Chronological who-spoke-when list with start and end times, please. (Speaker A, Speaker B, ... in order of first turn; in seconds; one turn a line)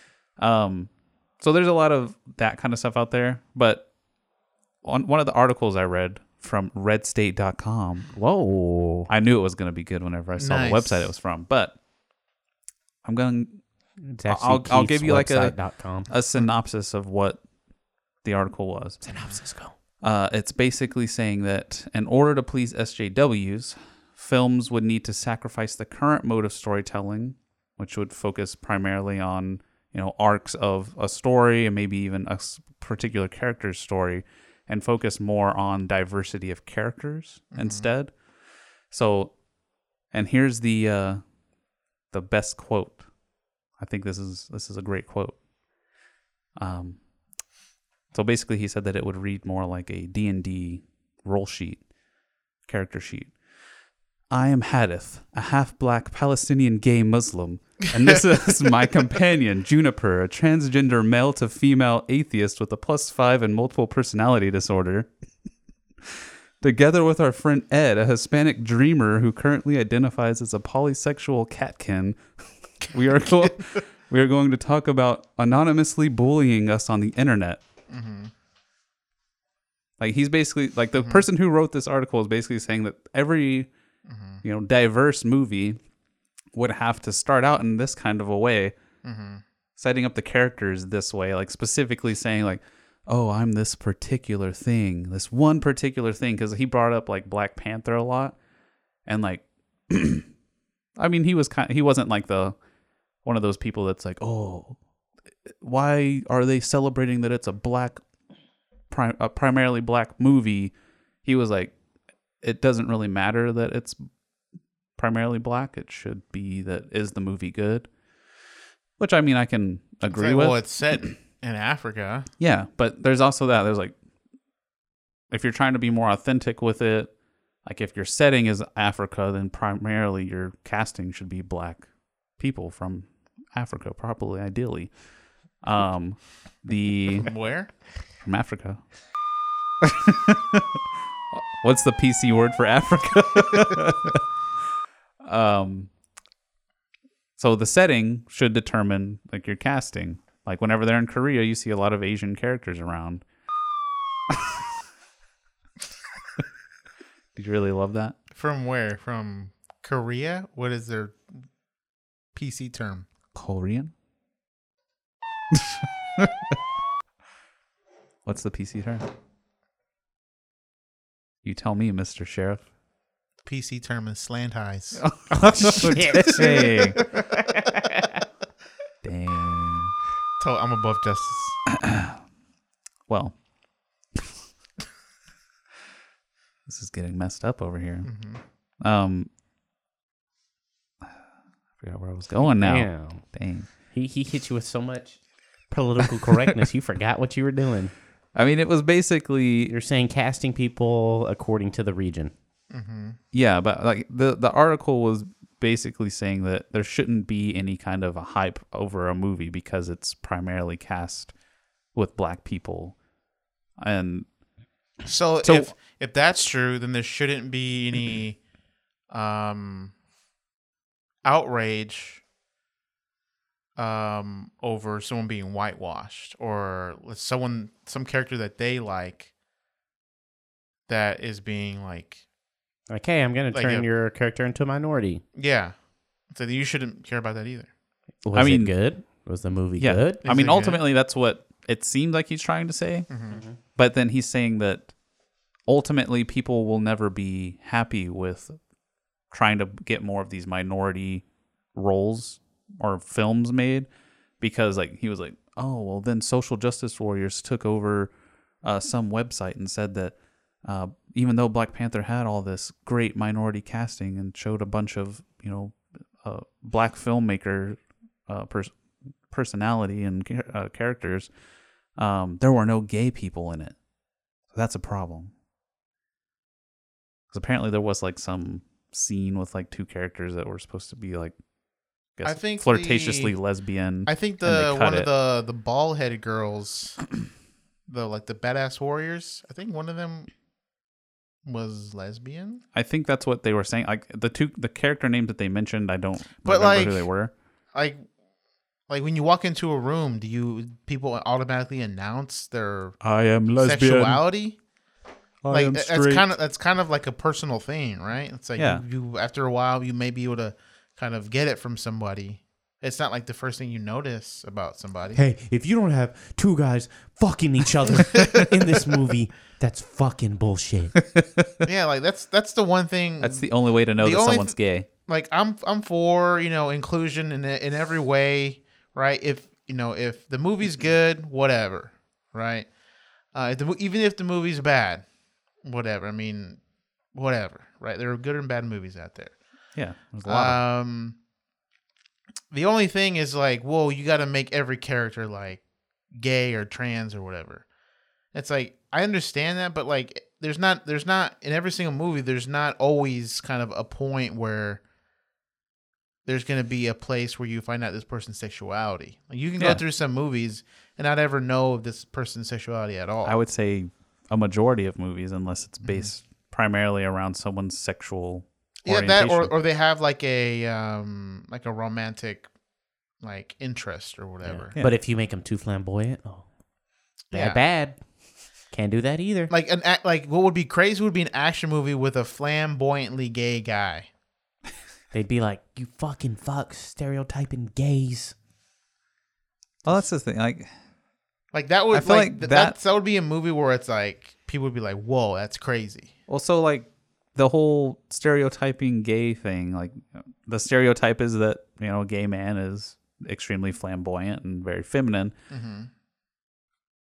Speaker A: 0.4-3.9
Speaker A: 4.8-8.1
Speaker B: 8.2-9.1
Speaker A: 9.1-11.8
Speaker C: 10.4-11.1
Speaker A: 13.0-13.6
Speaker B: 14.0-16.1
Speaker A: 14.3-15.6
Speaker A: 16.1-17.4
Speaker A: 18.2-19.0
Speaker B: 19.0-19.7
Speaker A: 20.0-38.1
Speaker C: 37.5-37.9
Speaker A: 38.9-39.3
Speaker A: 40.1-41.2
Speaker A: 42.1-43.0
Speaker A: 43.8-45.4
Speaker A: 46.6-47.0
Speaker A: 48.1-51.8
Speaker A: 52.7-53.3
Speaker A: 54.3-65.1
Speaker A: 66.1-72.2
Speaker A: 72.8-77.6
Speaker C: 77.9-78.3
Speaker A: 80.0-83.7
Speaker C: 81.0-81.2
Speaker C: 84.1-84.4
Speaker A: 84.4-85.8
Speaker A: 86.5-88.7
Speaker C: 89.0-89.4
Speaker A: 89.8-98.4
Speaker A: 99.1-100.3
Speaker A: 101.0-102.6
Speaker A: 103.2-104.8
Speaker A: 105.5-108.0
Speaker A: 108.9-110.7
Speaker A: 111.2-111.7
Speaker A: 112.4-114.1
Speaker A: 115.0-117.9
Speaker A: 119.0-120.6
Speaker C: 120.0-122.3
Speaker A: 122.4-124.0
Speaker A: 125.3-127.1
Speaker A: 127.6-134.9
Speaker A: 135.6-137.3
Speaker C: 137.2-137.7
Speaker A: 138.2-138.8
Speaker A: 139.8-140.8
Speaker A: 141.3-144.2
Speaker A: 145.2-145.9
Speaker A: 147.4-153.2
Speaker A: 154.3-154.6
Speaker A: 157.3-158.2
Speaker C: 158.3-161.4
Speaker C: 162.3-163.1
Speaker A: 163.3-163.9
Speaker A: 165.5-166.3
Speaker A: 168.2-169.1
Speaker A: 171.4-172.6
Speaker C: 173.4-175.0
Speaker A: 175.0-177.0
Speaker B: 175.3-178.2
Speaker C: 176.5-177.0
Speaker A: 179.0-179.9
Speaker C: 180.4-181.6
Speaker A: 181.7-182.2
Speaker A: 183.1-183.3
Speaker A: 186.7-188.1
Speaker C: 188.0-188.4
Speaker A: 188.8-189.3
Speaker A: 191.8-193.7
Speaker B: 192.6-193.2
Speaker B: 193.9-197.9
Speaker A: 198.3-199.7
Speaker B: 199.7-202.3
Speaker C: 202.7-203.2
Speaker A: 203.3-211.3
Speaker A: 211.9-212.9
Speaker A: 213.8-214.3
Speaker C: 215.0-218.4
Speaker A: 215.4-215.7
Speaker C: 219.1-219.9
Speaker C: 221.2-222.2
Speaker C: 223.8-229.3
Speaker C: 230.9-232.2
Speaker B: 232.9-235.2
Speaker C: 233.5-233.9
Speaker C: 235.3-235.7
Speaker C: 236.3-237.7
Speaker B: 238.2-240.2
Speaker A: 238.3-238.7
Speaker A: 239.8-243.1
Speaker C: 240.2-240.8
Speaker C: 243.1-243.4
Speaker B: 243.3-243.6
Speaker A: 243.8-244.9
Speaker A: 245.7-248.6
Speaker A: 249.3-251.2
Speaker A: 251.7-253.9
Speaker A: 254.4-258.1
Speaker A: 258.6-260.1
Speaker A: 260.6-268.7
Speaker A: 269.3-271.3
Speaker A: 272.0-273.7
Speaker A: 274.5-275.3
Speaker A: 277.3-281.3
Speaker A: 282.2-285.1
Speaker C: 282.2-283.3
Speaker C: 284.1-287.0
Speaker C: 287.9-290.3
Speaker C: 291.4-292.6
Speaker A: 292.7-297.3
Speaker C: 296.4-297.1
Speaker C: 297.7-298.0
Speaker C: 298.9-303.0
Speaker A: 303.0-304.2
Speaker C: 303.6-304.6
Speaker A: 305.4-306.3
Speaker C: 305.5-315.2
Speaker A: 308.6-308.8
Speaker B: 315.1-320.9
Speaker A: 321.1-321.4
Speaker C: 321.6-332.7
Speaker A: 323.2-324.9
Speaker C: 333.3-335.1
Speaker C: 335.6-336.6
Speaker C: 337.1-339.4
Speaker A: 339.8-340.6
Speaker C: 340.2-341.2
Speaker C: 342.5-347.6
Speaker C: 348.3-354.8
Speaker C: 356.3-363.4
Speaker A: 363.2-369.5
Speaker C: 365.8-366.1
Speaker C: 368.9-372.5
Speaker C: 373.2-374.8
Speaker B: 374.4-376.4
Speaker B: 377.3-378.0
Speaker C: 377.3-377.6
Speaker B: 378.7-379.5
Speaker C: 379.5-384.1
Speaker B: 385.1-388.4
Speaker A: 389.8-390.7
Speaker C: 391.5-396.1
Speaker A: 391.9-392.8
Speaker A: 396.3-405.3
Speaker C: 405.5-405.9